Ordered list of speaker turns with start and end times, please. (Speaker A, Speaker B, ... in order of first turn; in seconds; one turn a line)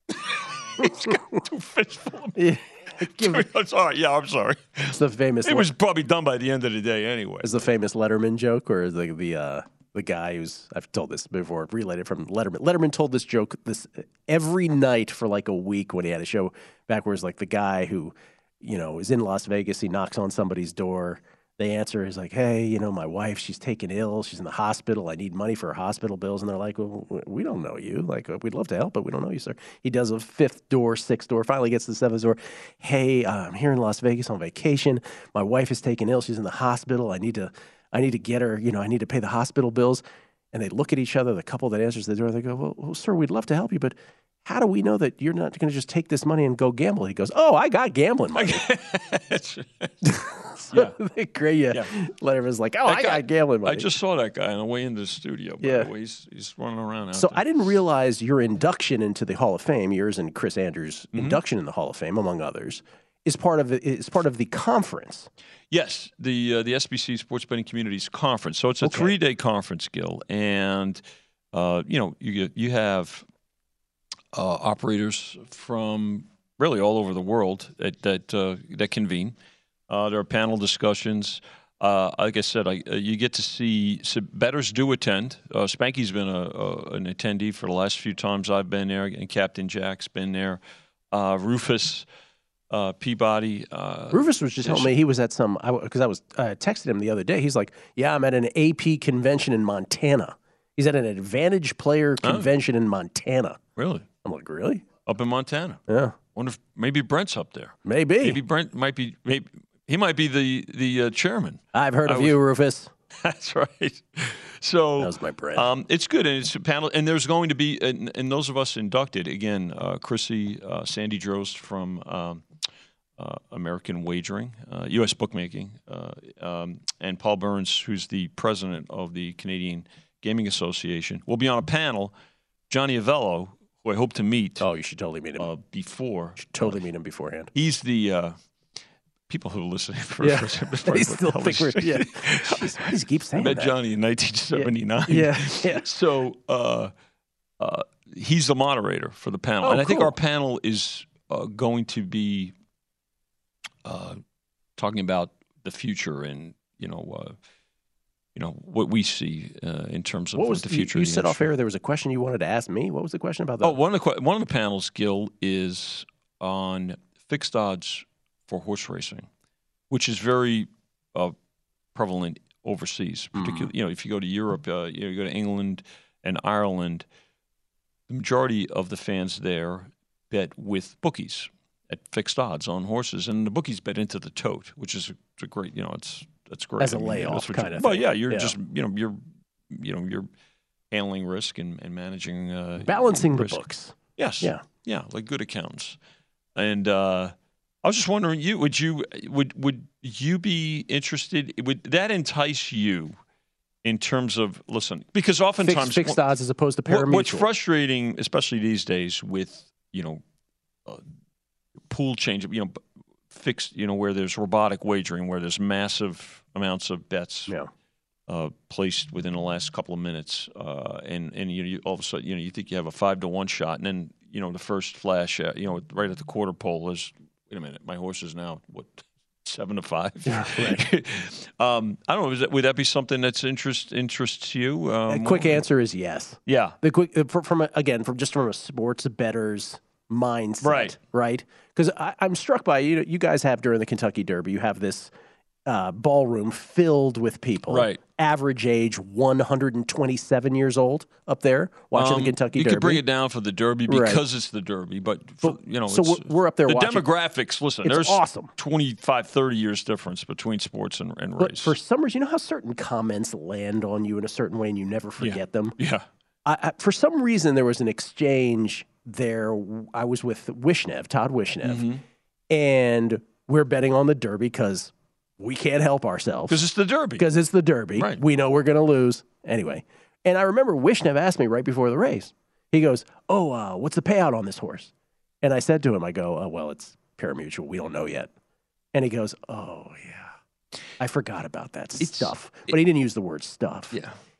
Speaker A: 0.2-2.5
Speaker B: 2.4-3.5
Speaker A: 3.0-7.5
Speaker B: 4.9-5.7
Speaker B: 7.4-48.6
Speaker A: 48.3-50.1
Speaker B: 50.0-53.9
Speaker A: 52.8-57.7
Speaker B: 55.6-55.9
Speaker B: 57.1-65.3
Speaker A: 61.1-61.4
Speaker A: 65.7-71.0
Speaker B: 68.8-69.1
Speaker A: 71.5-73.2
Speaker A: 74.3-79.4
Speaker A: 79.9-90.6
Speaker A: 91.1-92.0
Speaker A: 92.7-95.0
Speaker B: 94.1-103.6
Speaker A: 102.2-102.5
Speaker A: 103.8-104.1
Speaker B: 104.2-104.9
Speaker A: 105.0-112.4
Speaker B: 105.9-106.2
Speaker B: 107.8-108.4
Speaker B: 111.7-112.9
Speaker A: 113.2-122.5
Speaker B: 115.0-115.7
Speaker A: 123.2-132.1
Speaker A: 132.7-134.6
Speaker B: 134.6-135.5
Speaker A: 135.4-136.8
Speaker B: 136.5-137.5
Speaker A: 137.5-138.4
Speaker A: 139.3-146.9
Speaker B: 140.2-143.7
Speaker B: 144.5-145.9
Speaker A: 147.6-152.5
Speaker B: 149.6-150.1
Speaker A: 153.8-154.2
Speaker A: 154.8-157.4
Speaker A: 158.3-161.5
Speaker B: 160.3-163.8
Speaker A: 163.6-169.3
Speaker A: 169.9-171.4
Speaker A: 171.9-177.1
Speaker B: 173.3-173.7
Speaker A: 178.1-190.3
Speaker B: 186.8-188.5
Speaker A: 190.9-196.0
Speaker B: 192.8-194.6
Speaker A: 196.6-203.2
Speaker A: 203.8-206.2
Speaker B: 205.6-207.5
Speaker A: 206.9-210.2
Speaker A: 211.9-217.6
Speaker A: 218.3-235.6
Speaker B: 230.3-230.8
Speaker B: 235.1-245.1
Speaker A: 236.4-236.8
Speaker A: 240.6-241.0
Speaker B: 245.6-253.0
Speaker A: 247.7-248.0
Speaker A: 251.9-261.8
Speaker B: 253.9-254.2
Speaker B: 255.4-257.1
Speaker B: 257.8-258.5
Speaker B: 261.4-265.8
Speaker A: 265.2-266.1
Speaker B: 266.4-271.9
Speaker A: 271.6-272.0
Speaker B: 272.5-276.6
Speaker A: 276.5-277.3
Speaker B: 277.2-288.3
Speaker A: 277.9-278.2
Speaker B: 288.9-290.3
Speaker B: 291.0-293.9
Speaker A: 292.0-292.7